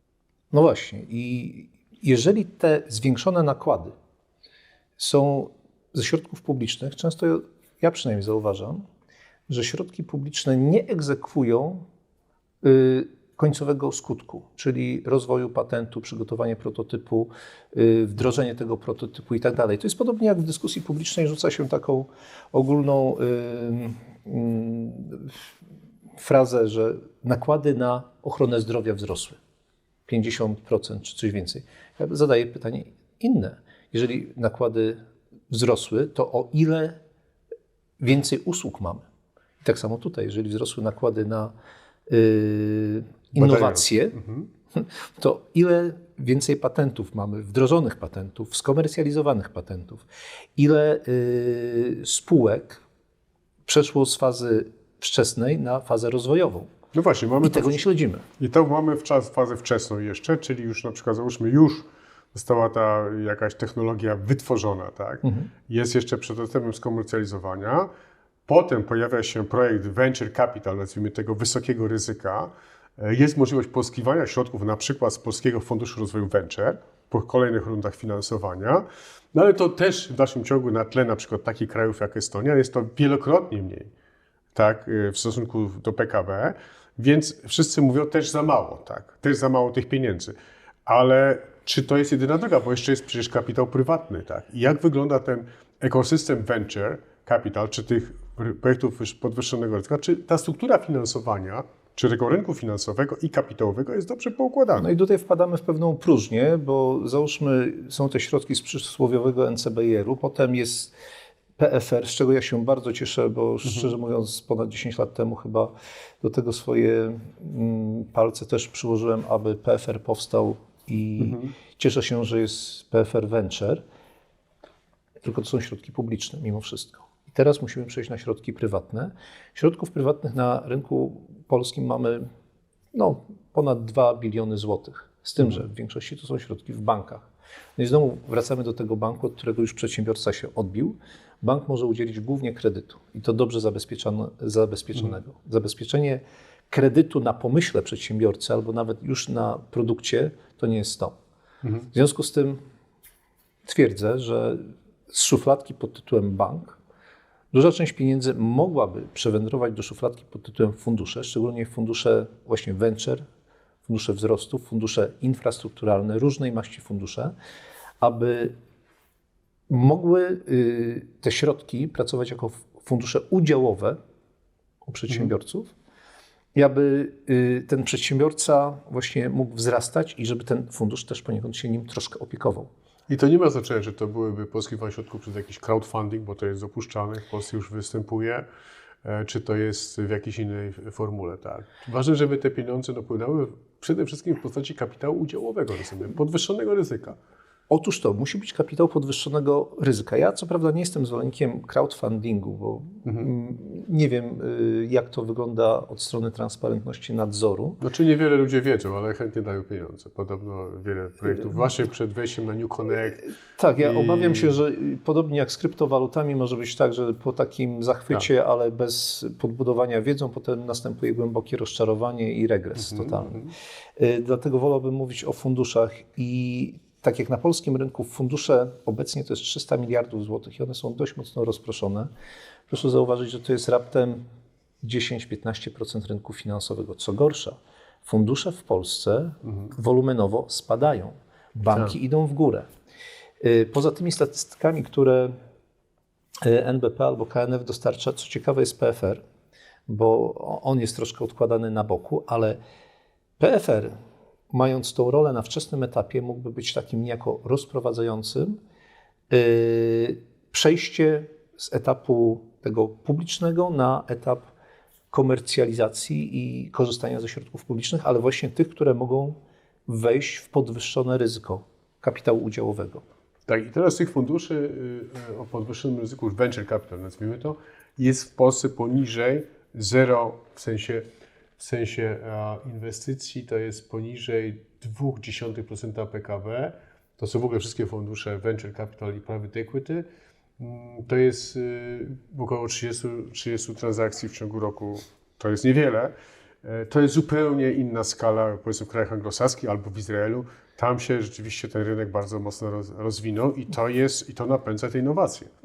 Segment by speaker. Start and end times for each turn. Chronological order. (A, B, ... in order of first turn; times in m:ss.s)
0:00.5-0:03.9 A
0:05.0-0:08.8 A
0:09.5-0:11.8 A
0:12.6-0:25.3 A
0:26.2-0:29.4 A
0:30.1-0:37.0 A
0:38.0-0:39.0 A
0:39.6-0:41.5 A
0:42.1-0:44.2 A
0:43.4-0:44.4 B
0:44.7-0:50.0 A
0:50.6-0:52.8 A
0:53.6-0:56.7 A
0:56.9-0:57.8 B
0:57.4-0:58.3 A
0:58.4-1:07.9 B
1:05.2-1:05.5 A
1:08.5-1:23.9 B
1:24.5-1:30.3 B
1:30.8-1:44.9 B
1:44.8-1:50.9 A
1:51.6-2:03.8 A
2:01.2-2:01.5 B
2:05.2-2:12.3 A
2:12.9-2:31.1 A
2:31.9-2:32.6 A
2:33.6-2:36.8 A
2:37.5-2:43.2 A
2:43.8-2:47.3 A
2:48.0-2:48.6 A
2:49.7-2:54.0 A
2:54.8-2:55.7 A
2:56.6-3:02.7 A
3:03.1-3:08.4 B
3:09.0-3:17.2 B
3:17.7-3:27.8 A
3:27.8-3:33.2 B
3:33.6-3:43.4 A
3:33.8-3:34.5 B
3:42.8-3:43.5 B
3:44.0-3:52.1 A
3:52.7-3:54.2 A
3:54.8-4:02.7 A
4:03.4-4:05.4 A
4:06.4-4:09.2 A
4:09.9-4:12.6 A
4:13.4-4:13.9 A
4:14.5-4:18.6 A
4:19.3-4:24.5 A
4:25.1-4:33.0 A
4:33.5-4:41.0 B
4:41.6-4:50.1 B
4:50.6-4:56.1 B
4:56.6-5:05.5 B